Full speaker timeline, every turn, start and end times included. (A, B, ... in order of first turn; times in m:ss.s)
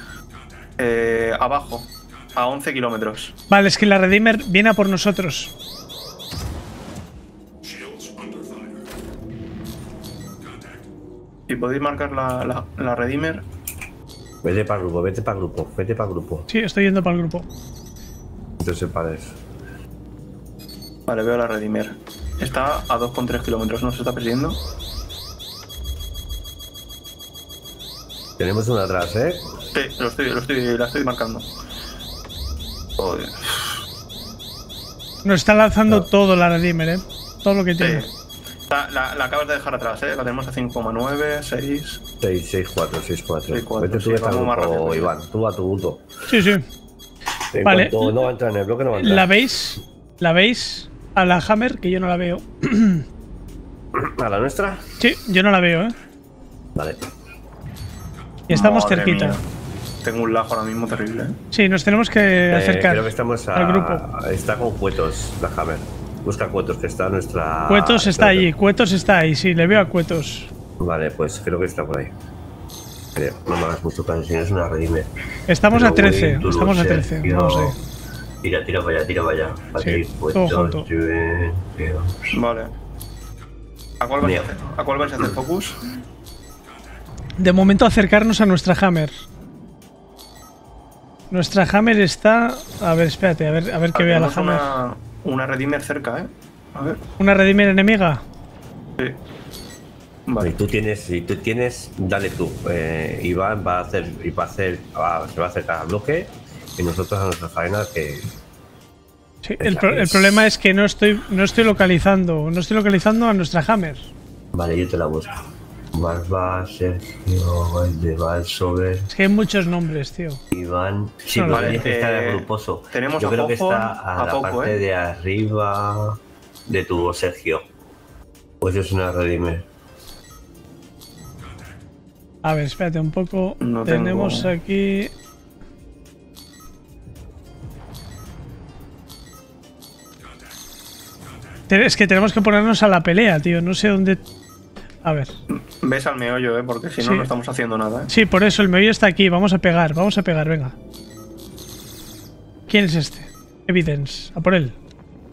0:00.8-0:03.3 A
0:03.5-0:05.5 B
0:11.5-0:13.4 A
0:14.4-0:16.5 C
0:16.5-0:17.5 B
0:18.6-0:19.4 C
0:21.1-0:24.6 A
0:28.4-0:29.5 C
0:29.8-0:31.5 A
0:33.0-0:33.8 A
0:35.2-0:38.0 B
0:37.8-0:38.1 A
0:38.7-0:42.0 A
0:42.2-0:46.0 C
0:43.5-0:45.1 A
0:46.3-0:46.6 B
0:47.5-0:49.3 C
0:47.6-0:48.2 B
0:49.0-0:53.0 B
0:53.9-0:54.8 C
0:55.0-0:56.0 B
0:56.8-0:57.0 C
0:58.5-0:59.4 B
0:58.5-0:59.4 A
1:00.0-1:01.4 A
1:01.5-1:04.0 B
1:02.5-1:08.5 C
1:07.7-1:10.5 B
1:10.8-1:12.1 C
1:13.2-1:15.1 C
1:15.5-1:17.8 B
1:15.7-1:17.8 C
1:18.4-1:22.4 C
1:19.8-1:20.9 B
1:22.3-1:22.7 A
1:24.0-1:25.8 A
1:24.2-1:24.5 C
1:27.4-1:29.2 B
1:31.3-1:34.8 B
1:33.9-1:37.0 A
1:37.2-1:38.2 B
1:40.3-1:40.5 A
1:40.4-1:48.3 C
1:49.4-1:54.1 B
1:49.6-1:50.4 C
1:54.5-1:59.1 C
1:59.1-2:00.4 B
2:00.5-2:07.7 C
2:01.3-2:01.8 B
2:01.5-2:04.8 A
2:08.6-2:09.6 C
2:12.4-2:15.1 B
2:13.6-2:14.5 A
2:21.7-2:24.2 B
2:25.0-2:25.3 B
2:25.5-2:28.1 A
2:27.0-2:27.3 B
2:28.1-2:30.8 B
2:32.7-2:34.8 B